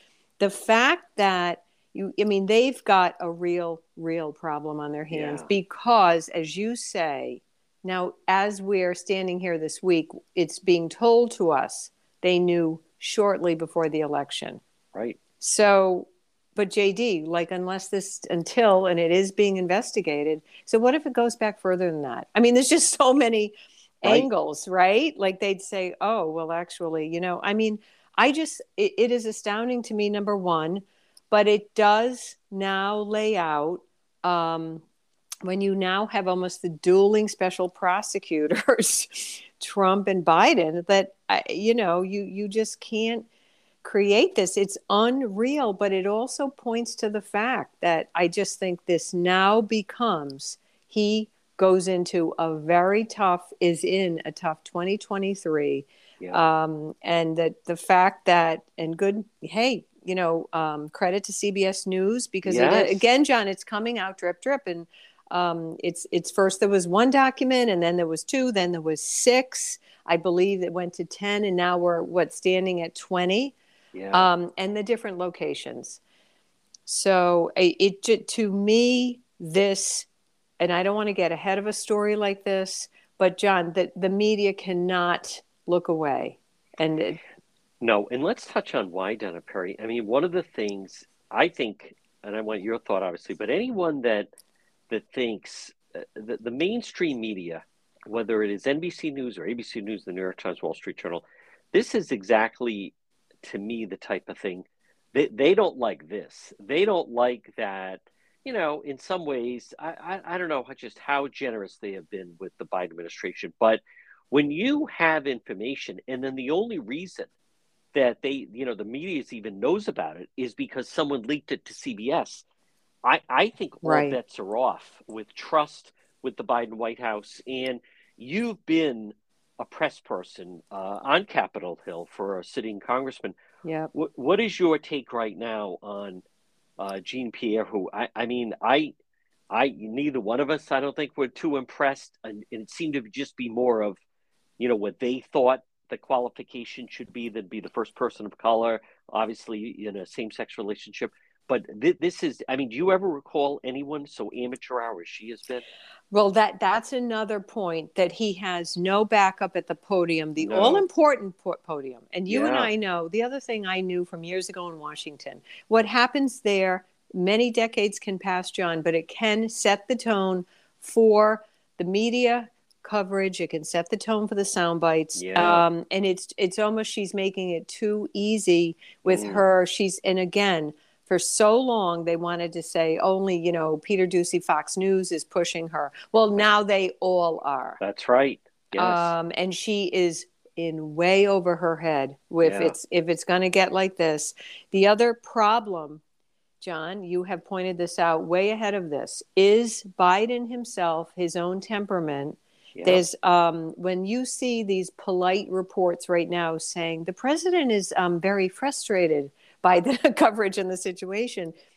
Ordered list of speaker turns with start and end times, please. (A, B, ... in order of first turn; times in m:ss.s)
0:00.4-0:14.6 A
0:05.1-0:05.5 B
0:14.9-0:15.2 B
0:15.4-0:34.8 A
0:35.4-0:43.2 A
0:43.8-1:13.5 A
1:02.4-1:03.0 B
1:13.9-1:14.3 B
1:14.1-1:16.0 A
1:16.9-1:20.1 A
1:20.6-1:27.2 A
1:27.8-1:34.3 B
1:34.9-1:57.3 B
1:57.9-2:02.4 B
2:03.0-2:13.4 B
2:03.8-2:04.2 A
2:13.6-2:13.9 A
2:13.9-2:16.2 B
2:16.8-2:18.9 B
2:19.5-2:24.0 B
2:24.6-2:35.6 B
2:36.1-3:07.8 A
2:40.4-2:40.8 B
2:42.3-2:42.7 B
2:55.2-2:55.6 B
2:59.0-2:59.4 B
3:07.8-3:09.1 B
3:08.8-3:16.0 A
3:12.4-3:12.7 B
3:16.6-3:31.5 A
3:22.8-3:23.0 B